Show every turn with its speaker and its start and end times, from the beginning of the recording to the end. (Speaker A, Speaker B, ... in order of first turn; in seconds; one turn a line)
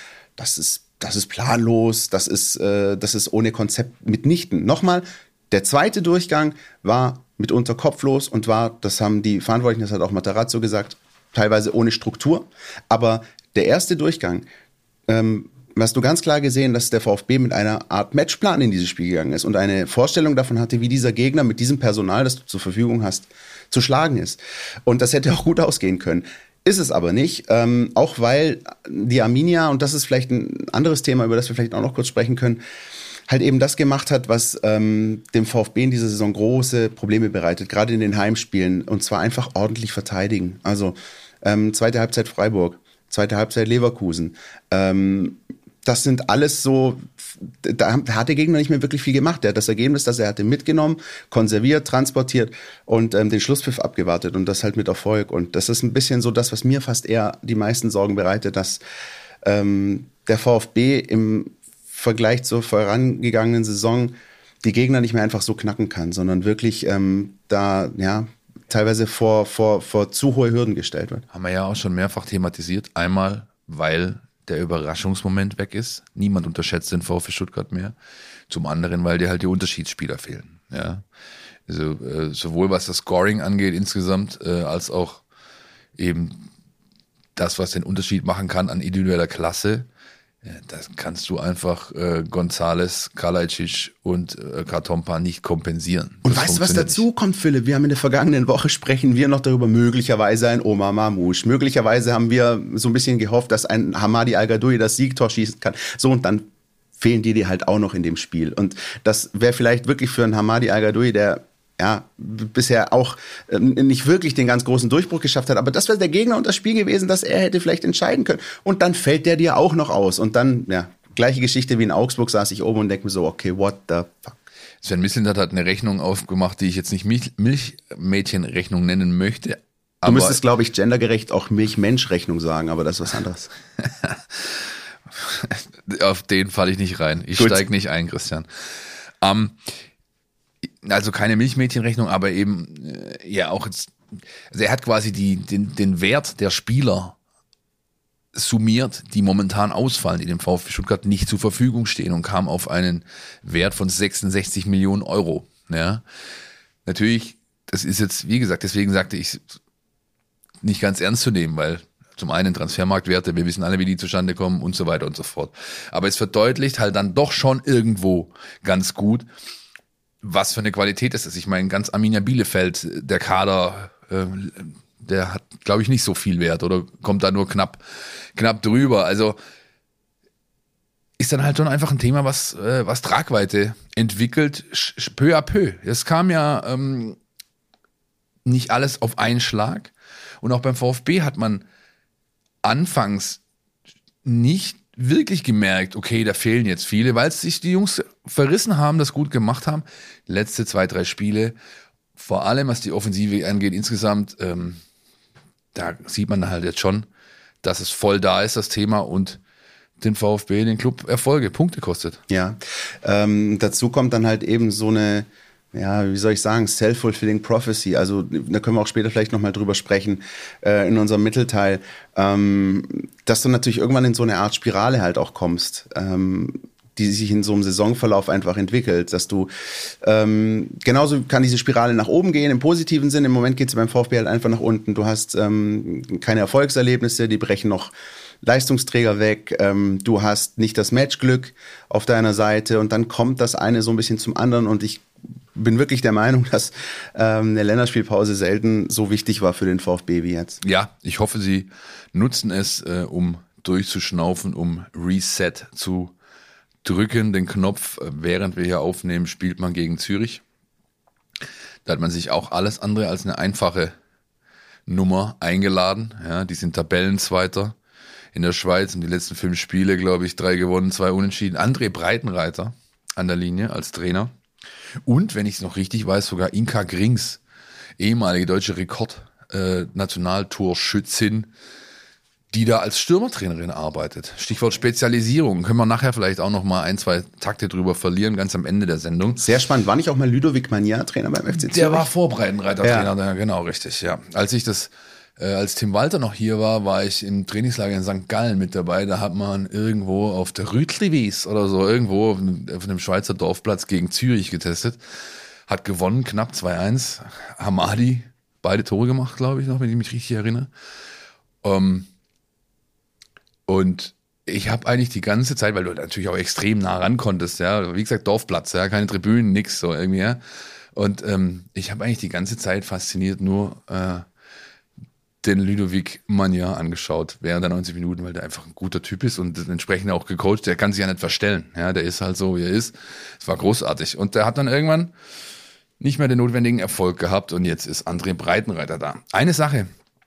Speaker A: 0.4-14.4
Speaker A: 15.1-32.6
Speaker A: 33.3-58.8
Speaker A: 59.4-71.2
Speaker B: 71.3-77.9
Speaker B: 78.5-81.0
Speaker B: 81.7-85.2
Speaker B: 86.0-86.4
Speaker B: 87.3-89.9
Speaker B: 90.4-97.0
Speaker A: 96.2-106.5
Speaker A: 107.0-124.4
Speaker B: 124.8-130.4
Speaker A: 130.0-133.5
Speaker B: 134.0-134.5
Speaker B: 135.2-138.5
Speaker A: 137.4-137.6
Speaker B: 139.2-139.6
Speaker B: 140.8-143.9
Speaker B: 144.5-147.2
Speaker B: 148.3-156.0
Speaker B: 156.8-159.5
Speaker B: 160.6-169.3
Speaker B: 170.2-177.8
Speaker B: 178.3-179.4
Speaker B: 181.2-187.2
Speaker B: 188.4-191.6
Speaker B: 192.6-193.4
Speaker B: 194.2-201.6
Speaker B: 202.2-204.8
Speaker B: 205.7-207.1
Speaker B: 207.6-209.4
Speaker B: 210.0-212.2
Speaker A: 212.3-229.5
Speaker A: 230.0-250.6
Speaker B: 250.6-256.1
Speaker B: 256.8-260.4
Speaker B: 261.8-263.9
Speaker B: 264.9-267.7
Speaker B: 268.3-274.3
Speaker B: 275.1-277.4
Speaker B: 278.0-281.5
Speaker B: 282.5-289.4
Speaker A: 289.4-292.1
Speaker B: 291.5-305.0
Speaker A: 292.8-293.1
Speaker B: 305.7-310.7
Speaker B: 311.6-312.1
Speaker B: 313.7-320.4
Speaker B: 320.9-324.2
Speaker B: 325.4-335.1
Speaker B: 336.0-339.9